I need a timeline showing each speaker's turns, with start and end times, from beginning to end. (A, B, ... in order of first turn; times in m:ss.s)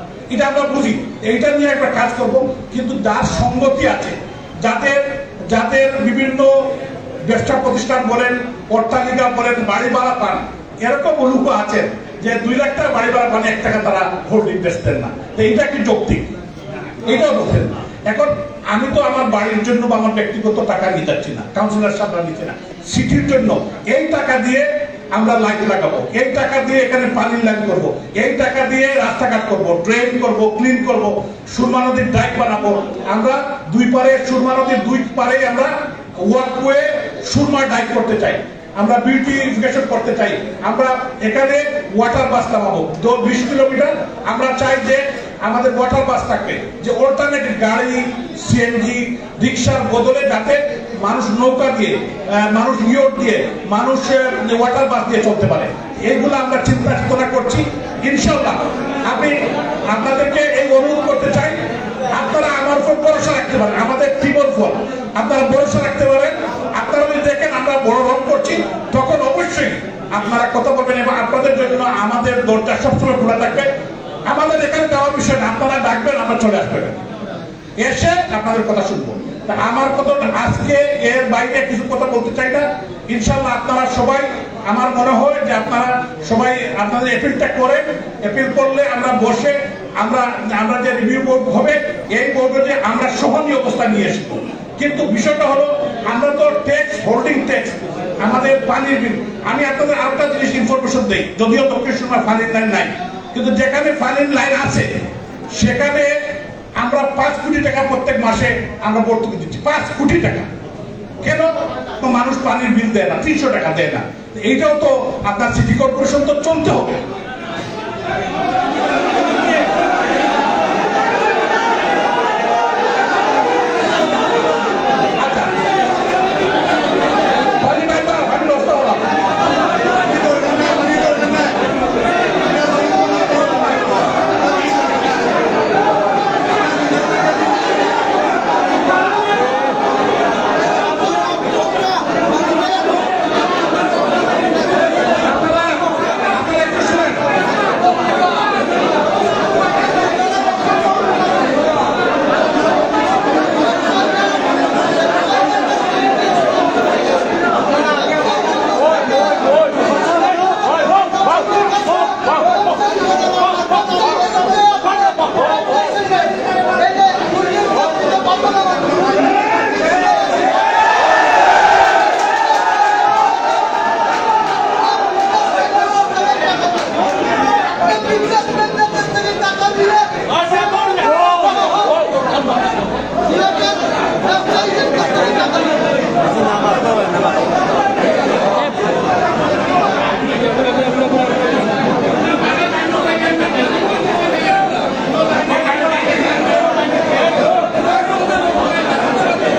0:00.3-0:06.7 A
0:07.2-0:16.3 A
0:17.0-0:59.4 A
0:59.9-1:01.6 A
1:02.1-1:13.7 A
1:14.3-1:17.0 A
1:17.8-1:45.0 A
1:45.5-1:46.2 A
1:46.8-1:50.5 A
1:51.2-1:57.0 A
2:05.2-2:05.5 A
2:07.6-2:09.1 A
2:25.2-2:27.4 A
3:15.5-3:16.2 A